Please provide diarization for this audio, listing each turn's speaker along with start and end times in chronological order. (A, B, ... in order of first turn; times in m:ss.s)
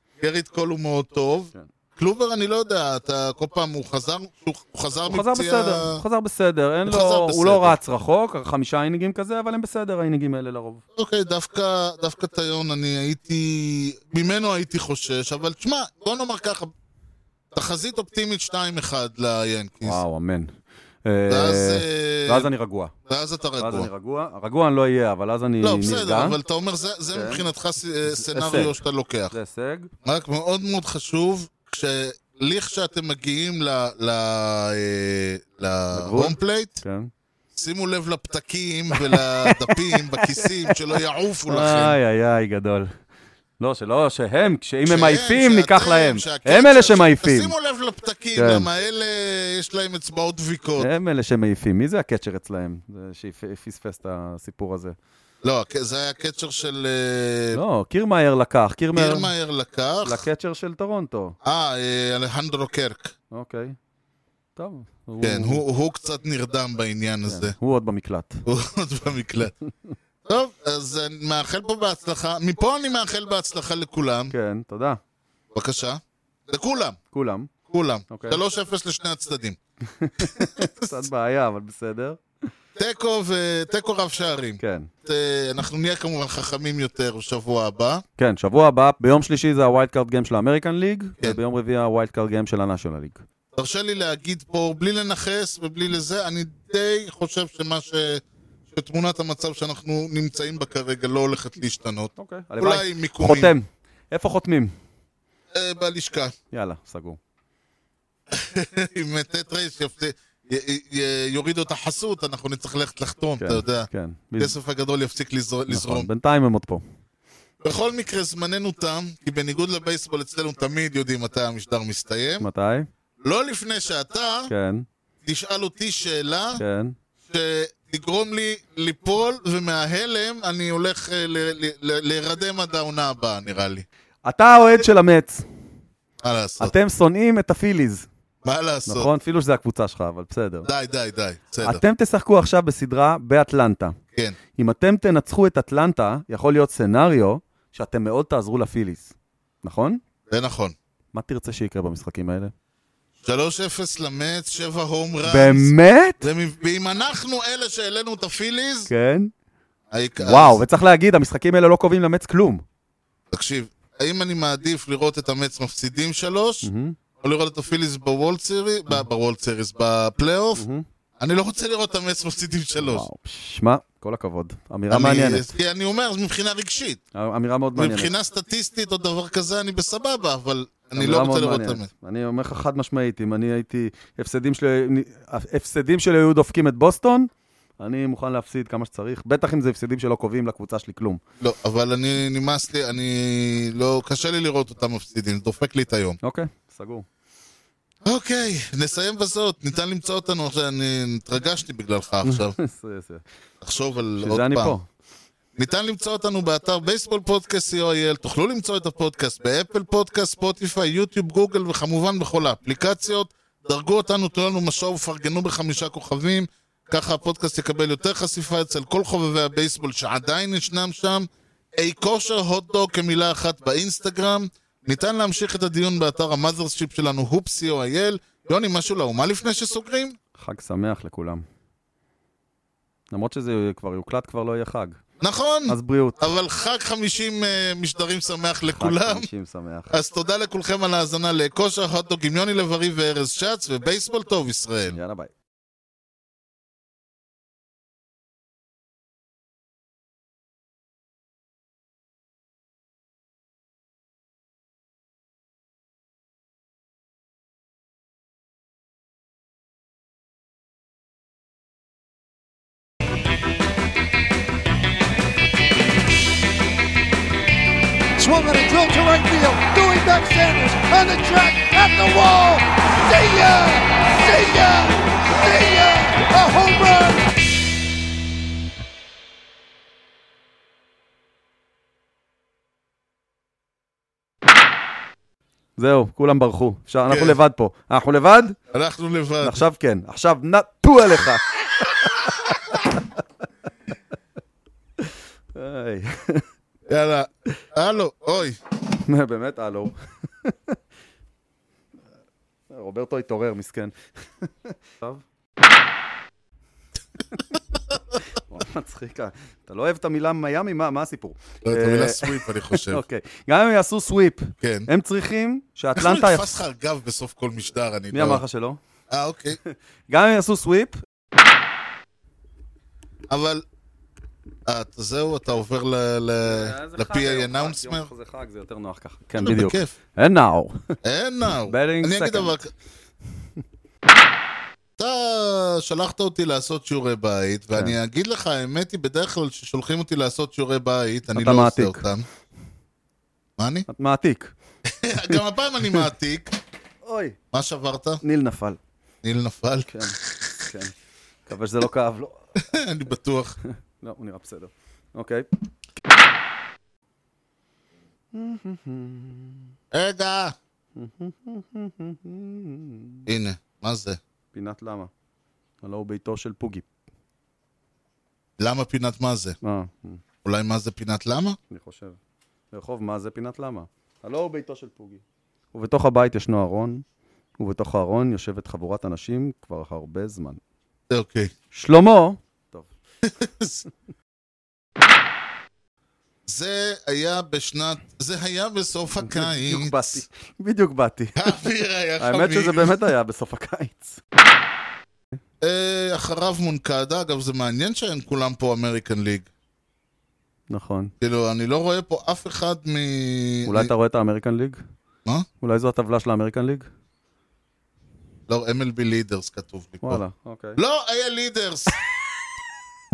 0:00.2-0:06.0 A
0:05.1-0:10.8 B
0:06.9-0:07.8 A
0:11.0-0:16.7 A
0:17.5-0:20.0 A
0:19.8-0:20.5 B
0:21.0-0:22.9 B
0:21.3-0:22.5 A
0:23.1-0:23.9 A
0:23.6-0:26.4 B
0:25.6-0:29.3 A
0:27.1-0:27.5 B
0:28.2-0:28.8 B
0:29.3-0:29.9 B
0:30.0-0:36.8 A
0:35.9-0:37.1 B
0:37.5-0:42.0 A
0:38.9-0:40.8 B
0:41.5-0:42.9 B
0:43.6-0:47.5 B
0:44.8-0:50.9 A
0:48.4-0:48.7 B
0:50.8-0:55.0 B
0:55.4-0:57.6 A
0:57.5-0:59.3 B
0:58.9-1:00.2 A
1:00.0-1:01.4 B
1:01.4-1:03.1 A
1:03.3-1:03.8 B
1:04.6-1:05.6 B
1:05.2-1:07.6 A
1:07.3-1:08.4 B
1:08.4-1:09.5 A
1:10.2-1:14.3 A
1:14.3-1:15.0 B
1:15.5-1:17.0 A
1:17.1-1:17.5 B
1:17.7-1:19.6 A
1:18.1-1:18.4 B
1:19.9-1:22.2 B
1:20.2-1:21.0 A
1:22.8-1:28.0 A
1:24.6-1:24.9 B
1:28.2-1:33.2 B
1:33.5-1:43.5 A
1:42.2-1:44.7 B
1:45.5-1:46.4 A
1:46.5-1:47.2 B
1:48.3-1:56.1 A
1:53.4-1:54.6 B
1:55.7-1:56.8 B
1:57.6-2:02.5 A
2:02.4-2:02.9 B
2:03.2-2:04.5 A
2:04.5-2:04.9 B
2:05.2-2:06.6 A
2:06.6-2:07.0 B
2:07.3-2:13.8 A
2:14.2-2:15.5 B
2:16.2-2:16.8 A
2:16.6-2:18.1 B
2:18.4-2:19.1 A
2:18.9-2:20.7 B
2:20.6-2:21.8 A
2:21.6-2:24.0 B
2:24.6-2:30.0 B
2:30.3-2:30.8 A
2:31.1-2:32.5 B
2:33.2-2:38.9 A
2:35.2-2:36.2 B
2:38.9-2:39.3 B
2:39.9-2:40.6 A
2:40.2-2:42.6 B
2:43.3-2:46.7 A
2:46.6-2:47.0 B
2:47.2-2:50.6 A
2:50.6-2:50.8 B
2:51.2-2:53.1 A
2:52.8-2:55.5 B
2:54.9-2:57.0 A
2:57.2-2:58.1 B
2:57.8-3:01.9 A
3:01.0-3:07.3 B
3:07.8-3:11.2 B
3:11.4-3:16.2 A
3:16.2-3:17.1 B
3:18.0-3:22.6 A
3:22.2-3:23.2 B
3:23.6-3:24.8 A
3:24.2-3:24.9 B
3:25.6-3:50.2 A
3:50.4-3:51.4 B
3:53.1-3:55.0 B
3:55.2-3:59.3 A
3:55.7-3:56.2 B
3:58.8-3:59.9 B
3:59.9-4:05.0 A
4:04.9-4:05.3 B
4:28.2-4:37.3 C
4:45.8-4:48.6 B
4:47.1-4:47.4 A
4:48.7-4:49.6 A
4:49.4-4:53.0 B
4:55.0-4:56.5 B
4:56.9-4:58.6 A
4:59.0-5:00.8 B
5:02.7-5:05.2 B
5:08.4-5:16.5 B
5:11.6-5:13.0 A
5:14.6-5:14.9 A
5:16.0-5:18.4 A
5:18.1-5:18.8 B
5:19.1-5:19.6 A
5:20.1-5:21.0 B
5:23.3-5:23.6 A
5:24.7-5:28.1 A
5:26.4-5:31.0 B
5:29.4-5:29.9 A
5:31.0-5:32.7 A
5:31.7-5:32.6 B
5:35.0-5:42.3 A
5:41.3-5:42.0 B
5:43.6-5:43.9 A
5:43.9-5:44.5 B
5:44.9-5:46.6 A
5:47.0-5:47.4 B
5:47.5-5:48.2 A
5:48.2-5:48.8 B
5:49.2-5:50.6 A
5:49.9-5:50.9 B
5:51.5-5:52.4 B
5:52.6-5:53.6 A
5:54.0-5:55.5 B
5:58.3-5:59.7 B
5:59.9-6:00.6 A
6:01.0-6:03.3 B
6:03.3-6:04.2 A
6:04.5-6:05.1 B
6:05.8-6:06.8 B
6:08.6-6:09.6 A
6:09.6-6:10.2 B
6:10.4-6:11.6 A
6:11.7-6:12.2 B
6:12.7-6:17.0 B
6:17.6-6:20.6 B
6:21.1-6:21.5 A
6:21.7-6:22.9 B
6:23.2-6:23.8 A
6:26.5-6:30.2 A
6:29.2-6:31.6 B
6:31.4-6:33.0 A
6:32.2-6:34.2 B
6:35.6-6:39.5 A
6:40.7-6:41.1 B
6:41.2-6:43.9 A
6:43.7-6:44.8 B
6:45.6-6:46.9 B
6:48.5-6:50.2 A
6:50.0-6:50.8 B
6:50.8-6:52.0 A